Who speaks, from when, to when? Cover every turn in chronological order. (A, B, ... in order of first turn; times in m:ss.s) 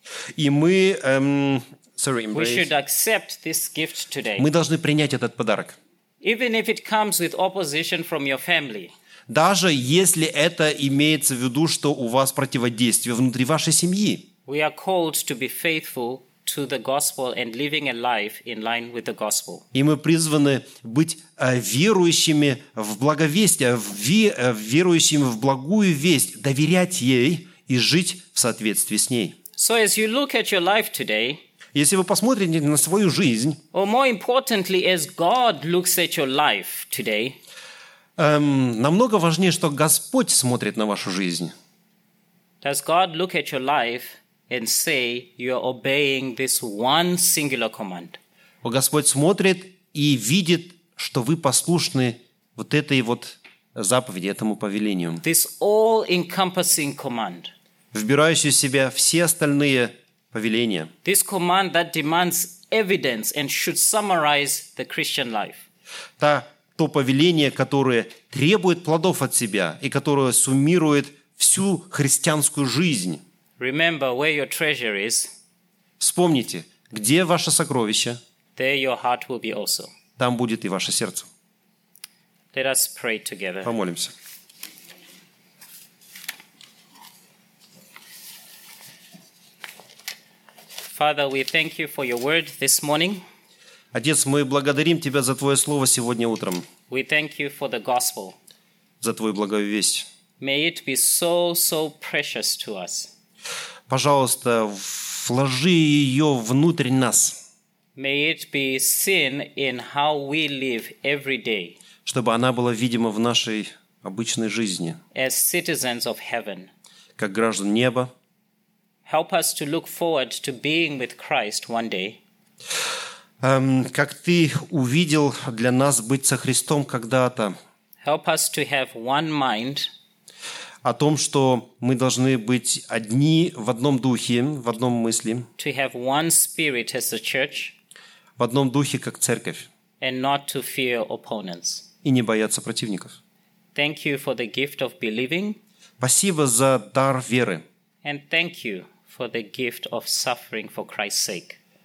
0:00.4-0:02.7 A
0:02.3-0:04.5 B
0:04.4-0:05.8 A
0:06.2-0:08.9 B
0:09.3-0:14.3 A
0:14.5-0:19.6 B
0:19.7-0:29.4 A
0:29.6-0:31.4 B
0:31.8-0:33.6 A
0:33.7-0:37.4 B
0:38.2-0:41.5 A
0:42.6-0:48.2 B
0:48.6-0:55.2 A
0:55.2-0:57.5 B
0:57.9-1:00.9 A
1:01.0-1:05.6 B
1:06.2-1:13.2 A
1:13.6-1:15.3 B
1:16.0-1:18.2 A
1:18.6-1:19.9 B
1:20.2-1:21.3 A
1:22.5-1:23.7 B
1:23.6-1:24.1 A
1:30.9-1:33.2 B
1:33.9-1:36.6 A
1:36.9-1:38.4 B
1:39.0-1:40.1 A
1:40.4-1:43.1 B
1:43.9-1:47.4 A
1:48.0-1:51.8 B
1:52.1-1:55.0 A
1:55.1-1:56.7 B
1:57.2-1:58.1 A
1:59.1-2:02.2 B
2:03.4-2:07.5 A
2:08.0-2:09.9 B
2:10.8-2:15.5 A
2:15.6-2:17.8 B
2:18.4-2:19.7 A
2:20.0-2:21.9 B
2:22.0-2:23.2 A
2:23.8-2:25.6 B
2:26.0-2:27.6 A
2:28.0-2:31.6 B